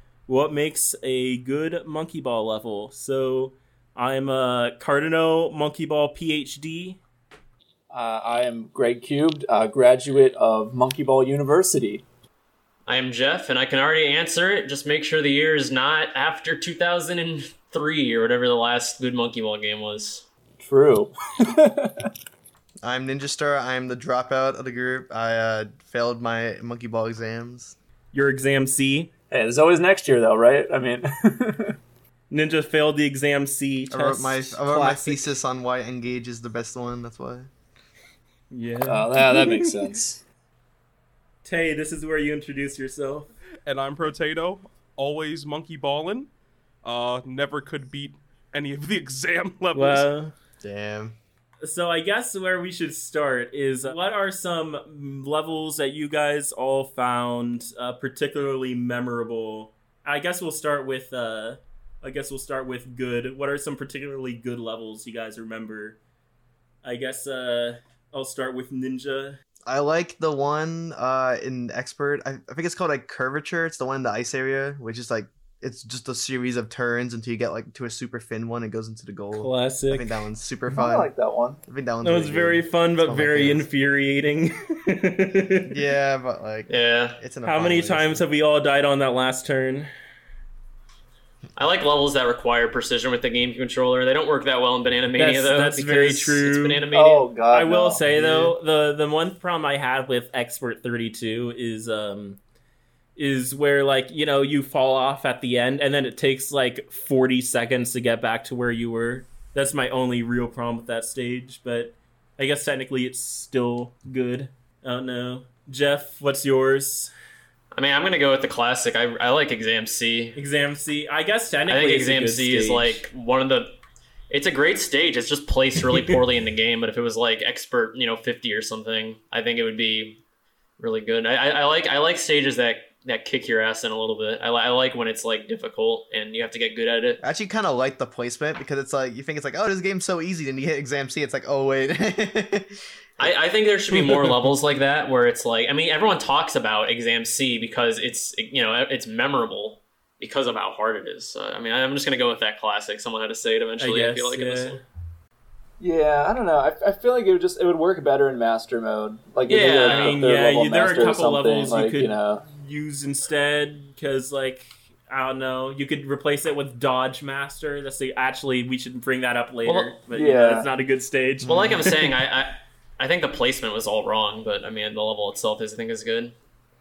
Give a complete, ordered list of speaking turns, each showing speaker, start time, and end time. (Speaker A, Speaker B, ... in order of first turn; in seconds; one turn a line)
Speaker A: 0.3-7.0
Speaker B: 7.9-12.0
Speaker C: 12.9-20.3
Speaker B: 20.6-22.1
Speaker D: 22.8-27.8
Speaker A: 28.1-29.1
Speaker B: 29.3-31.8
Speaker A: 32.3-35.3
Speaker D: 33.9-37.5
Speaker A: 38.5-39.8
Speaker B: 38.9-40.2
Speaker A: 41.4-43.3
Speaker E: 43.7-46.3
Speaker E: 46.8-50.1
Speaker A: 49.7-50.3
Speaker D: 50.6-51.1
Speaker A: 51.6-66.0
Speaker A: 66.8-69.4
Speaker D: 69.7-81.1
Speaker A: 79.3-80.2
Speaker B: 80.7-81.6
Speaker D: 81.7-83.7
Speaker A: 82.0-85.7
Speaker D: 85.7-88.2
Speaker C: 86.7-87.2
Speaker A: 87.5-89.9
Speaker C: 91.6-97.3
Speaker A: 95.2-96.8
Speaker B: 96.9-98.5
Speaker A: 97.5-102.4
Speaker A: 103.2-117.1
Speaker C: 117.7-120.4
Speaker A: 120.4-123.1
Speaker C: 121.7-123.8
Speaker C: 124.3-130.2
Speaker C: 130.8-137.2
Speaker D: 137.2-143.3
Speaker C: 143.2-154.8
Speaker A: 153.8-154.8
Speaker B: 155.8-162.4
Speaker C: 159.5-160.2
Speaker A: 159.8-172.1
Speaker C: 169.7-170.0
Speaker B: 170.1-170.7
Speaker D: 171.4-171.9
Speaker C: 171.4-176.3